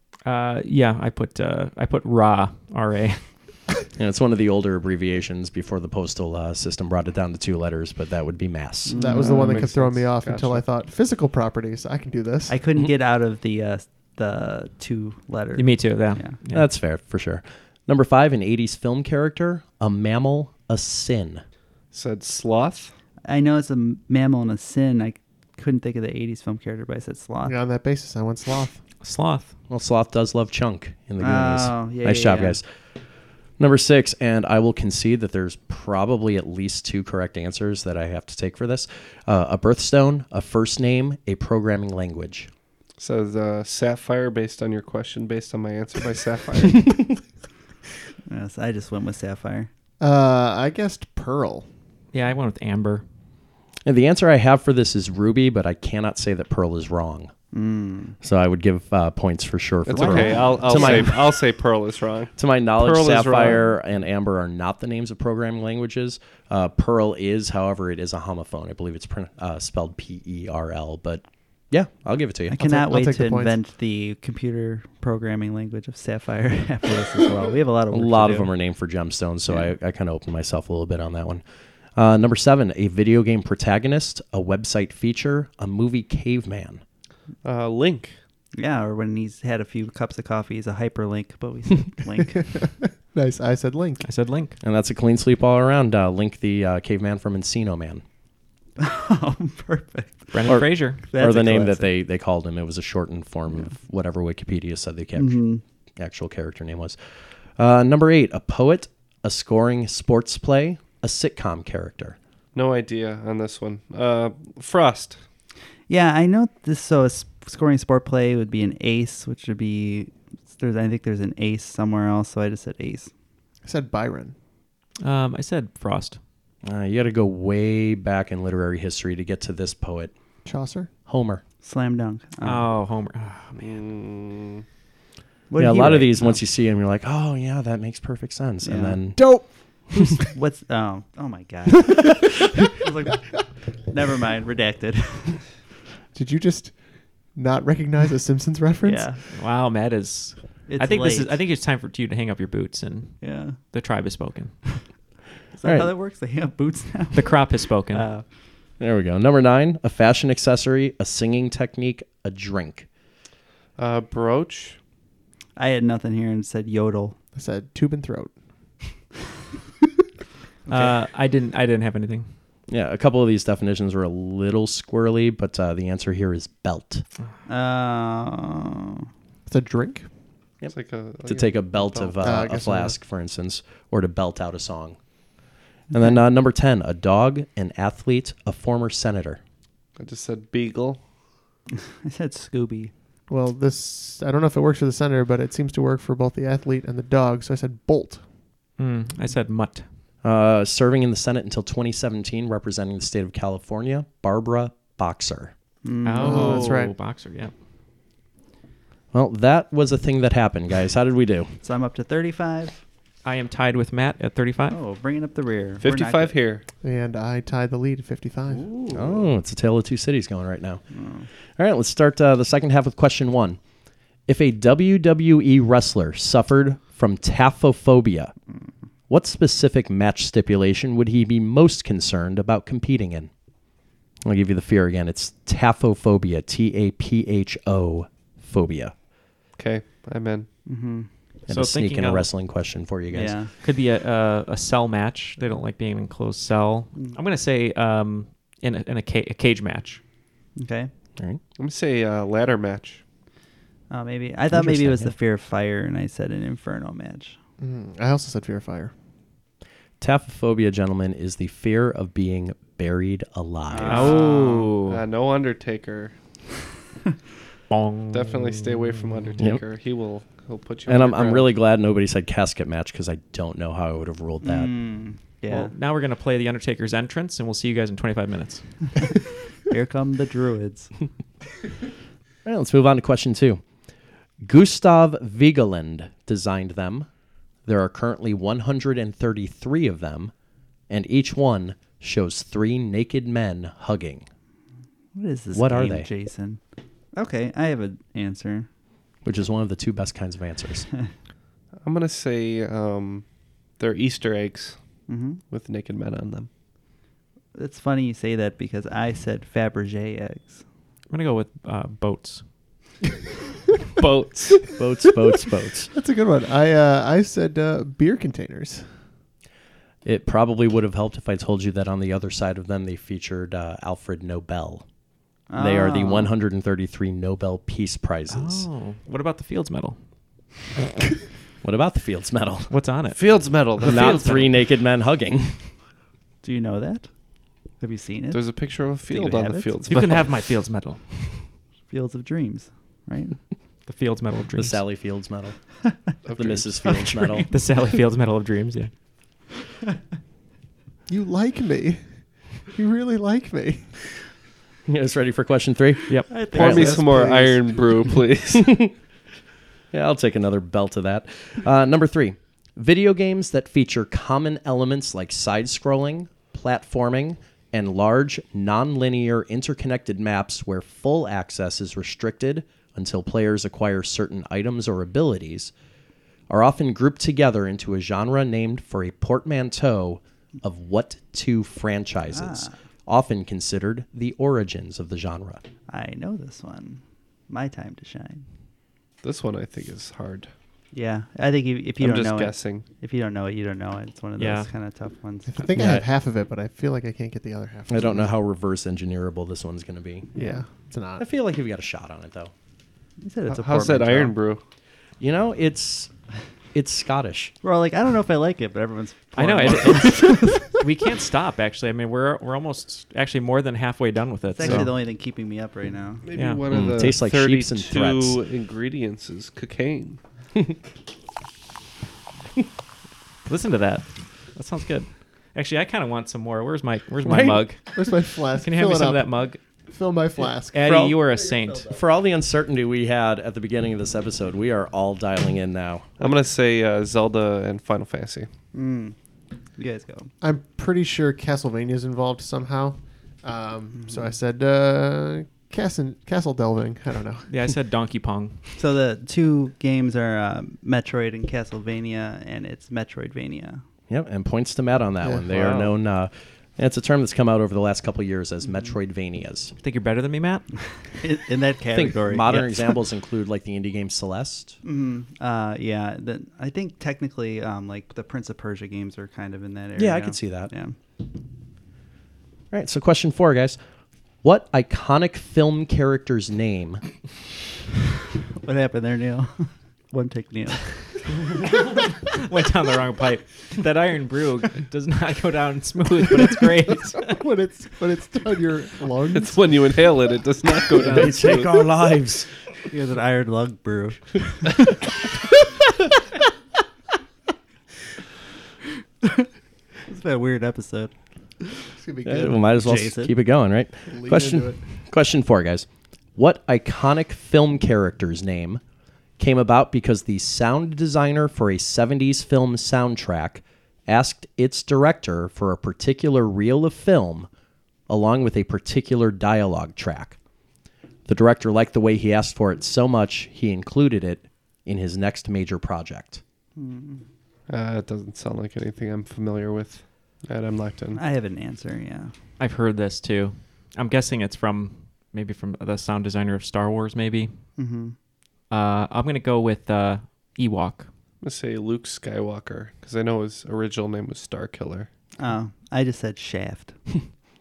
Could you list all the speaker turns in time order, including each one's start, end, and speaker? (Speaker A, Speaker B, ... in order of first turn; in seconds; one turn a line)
Speaker A: 0.2-3.4
Speaker B: 4.0-9.0
Speaker C: 8.8-9.7
Speaker D: 8.9-12.6
Speaker E: 9.1-10.6
Speaker C: 12.5-16.4
Speaker A: 15.6-16.7
Speaker B: 16.5-21.4
Speaker E: 21.9-22.9
Speaker C: 23.2-27.5
Speaker D: 27.4-28.8
Speaker A: 29.0-29.5
Speaker B: 29.7-32.7
Speaker C: 31.2-32.6
Speaker B: 33.6-42.5
Speaker E: 43.0-46.9
Speaker C: 48.3-49.7
Speaker D: 50.0-51.7
Speaker A: 52.1-53.0
Speaker B: 53.8-57.3
Speaker C: 57.5-58.1
Speaker B: 58.2-61.3
Speaker E: 59.9-63.6
Speaker C: 59.9-61.1
Speaker B: 62.4-72.6
Speaker C: 72.5-78.5
Speaker D: 72.6-73.6
Speaker B: 77.9-81.4
Speaker B: 82.0-86.8
Speaker E: 87.4-88.2
Speaker C: 88.5-92.4
Speaker D: 92.2-94.1
Speaker A: 94.0-94.5
Speaker B: 94.6-98.0
Speaker C: 98.8-101.9
Speaker A: 100.3-101.0
Speaker B: 100.5-105.4
Speaker C: 105.2-105.6
Speaker B: 106.0-107.0
Speaker B: 107.6-112.2
Speaker E: 112.5-115.2
Speaker C: 115.9-123.1
Speaker D: 123.6-124.3
Speaker A: 125.0-126.2
Speaker B: 126.6-130.1
Speaker D: 130.4-130.9
Speaker B: 131.1-131.4
Speaker C: 131.6-132.7
Speaker A: 132.4-133.8
Speaker E: 133.5-134.6
Speaker C: 135.5-136.4
Speaker B: 135.6-139.2
Speaker C: 138.6-139.0
Speaker D: 139.2-140.2
Speaker C: 140.3-145.4
Speaker D: 146.1-146.8
Speaker D: 147.3-149.1
Speaker C: 148.8-149.2
Speaker A: 149.3-154.6
Speaker C: 150.7-151.4
Speaker C: 153.2-153.6
Speaker C: 155.5-158.2
Speaker B: 155.6-155.9
Speaker A: 157.1-158.1
Speaker B: 158.8-162.9
Speaker E: 163.8-164.8
Speaker C: 165.6-167.2
Speaker D: 167.3-168.3
Speaker A: 170.7-172.3
Speaker B: 172.7-177.0
Speaker C: 177.5-179.1
Speaker D: 179.5-180.1
Speaker E: 180.7-182.2
Speaker B: 181.2-185.0
Speaker D: 182.2-183.0
Speaker C: 185.9-186.2
Speaker B: 185.9-189.4
Speaker E: 190.0-191.0
Speaker C: 191.9-192.9
Speaker D: 193.3-198.2
Speaker A: 198.8-199.8
Speaker B: 200.2-205.5
Speaker C: 205.8-206.7
Speaker A: 206.0-207.5
Speaker D: 206.2-206.9
Speaker B: 209.1-211.5
Speaker C: 211.6-212.8
Speaker A: 213.2-214.8
Speaker C: 214.7-216.4
Speaker E: 215.8-216.7
Speaker D: 216.8-218.7
Speaker C: 218.5-219.3
Speaker B: 218.9-220.8
Speaker C: 220.9-221.3
Speaker B: 221.6-223.6
Speaker B: 224.3-228.3
Speaker B: 229.1-233.3
Speaker B: 234.2-238.9
Speaker E: 239.6-240.5
Speaker C: 240.7-241.1
Speaker A: 241.5-242.3
Speaker B: 241.5-243.4
Speaker C: 243.1-243.5
Speaker A: 243.6-250.0
Speaker C: 250.6-250.9
Speaker E: 251.6-253.0
Speaker C: 253.9-257.4
Speaker B: 254.5-255.2
Speaker D: 257.6-258.9
Speaker B: 260.0-264.1
Speaker C: 263.7-264.7
Speaker E: 263.8-266.1
Speaker A: 263.8-265.0
Speaker A: 267.7-269.1
Speaker E: 268.1-271.5
Speaker B: 270.9-274.7
Speaker C: 274.4-275.7
Speaker A: 275.5-278.9
Speaker C: 279.6-280.9
Speaker B: 282.4-283.6
Speaker B: 284.4-287.1
Speaker B: 287.6-290.3
Speaker B: 290.9-294.3
Speaker C: 295.1-296.6
Speaker B: 295.5-296.1
Speaker C: 297.1-298.7
Speaker B: 299.2-300.9
Speaker E: 301.8-303.2
Speaker E: 303.8-304.8
Speaker C: 305.1-305.4
Speaker E: 305.5-306.5
Speaker C: 307.5-310.6
Speaker A: 311.1-312.4
Speaker E: 314.0-314.6
Speaker B: 314.8-315.9
Speaker D: 315.9-318.9
Speaker B: 320.0-324.8
Speaker C: 325.5-326.3
Speaker B: 325.6-328.7
Speaker A: 328.3-330.0
Speaker B: 331.6-332.7
Speaker A: 332.7-334.5
Speaker E: 333.1-334.4
Speaker B: 333.8-335.6
Speaker C: 336.4-337.1
Speaker C: 337.8-338.4
Speaker E: 338.3-340.3
Speaker C: 338.9-339.8
Speaker A: 339.9-341.0
Speaker C: 341.9-343.4
Speaker A: 343.9-344.8
Speaker B: 344.6-345.6
Speaker E: 346.2-346.7
Speaker B: 346.3-347.5
Speaker C: 346.8-347.5
Speaker A: 347.5-348.9
Speaker D: 351.1-353.9
Speaker B: 354.9-357.0
Speaker A: 356.1-356.4
Speaker C: 356.3-357.9
Speaker E: 356.5-358.7
Speaker B: 358.5-358.9
Speaker B: 359.9-375.7
Speaker B: 376.5-385.6
Speaker C: 382.3-382.8
Speaker C: 385.9-388.4
Speaker E: 389.2-390.5
Speaker C: 390.9-396.0
Speaker E: 392.0-392.9
Speaker A: 394.4-394.7
Speaker D: 395.5-398.3
Speaker B: 397.9-400.3
Speaker D: 400.3-401.2
Speaker B: 401.2-402.5
Speaker C: 403.2-404.4
Speaker E: 403.5-404.6
Speaker B: 405.2-406.1
Speaker B: 406.7-407.5
Speaker C: 407.6-410.8
Speaker A: 409.4-414.9
Speaker C: 414.5-416.2
Speaker E: 416.2-420.2
Speaker A: 416.3-416.6
Speaker B: 416.7-418.4
Speaker A: 423.4-429.6
Speaker B: 427.2-427.6
Speaker D: 427.9-429.3
Speaker D: 429.9-430.8
Speaker A: 430.7-431.9
Speaker B: 430.8-431.2
Speaker B: 431.9-436.0
Speaker E: 436.2-438.5
Speaker C: 438.7-439.1
Speaker C: 439.8-440.3
Speaker D: 440.4-447.5
Speaker C: 443.9-444.3
Speaker A: 447.5-448.6
Speaker C: 448.8-453.8
Speaker B: 454.1-459.7
Speaker D: 455.2-455.6
Speaker E: 455.5-455.9
Speaker A: 459.8-460.7
Speaker C: 461.2-463.0
Speaker B: 461.9-464.8
Speaker C: 464.8-470.9
Speaker B: 469.9-470.7
Speaker B: 472.7-473.8
Speaker B: 474.4-477.0
Speaker C: 478.6-481.0
Speaker A: 482.3-487.4
Speaker D: 487.3-489.8
Speaker E: 489.3-491.7
Speaker B: 491.0-492.5
Speaker C: 492.9-494.7
Speaker C: 500.1-501.1
Speaker D: 502.0-502.5
Speaker B: 502.2-508.8
Speaker C: 502.4-503.3
Speaker D: 504.1-504.8
Speaker B: 509.4-517.5
Speaker B: 518.1-520.4
Speaker B: 521.3-526.4
Speaker C: 526.8-527.2
Speaker E: 527.7-531.2
Speaker C: 531.1-532.3
Speaker A: 532.6-537.5
Speaker C: 537.8-538.1
Speaker A: 538.7-541.1
Speaker E: 541.4-545.1
Speaker C: 545.4-547.0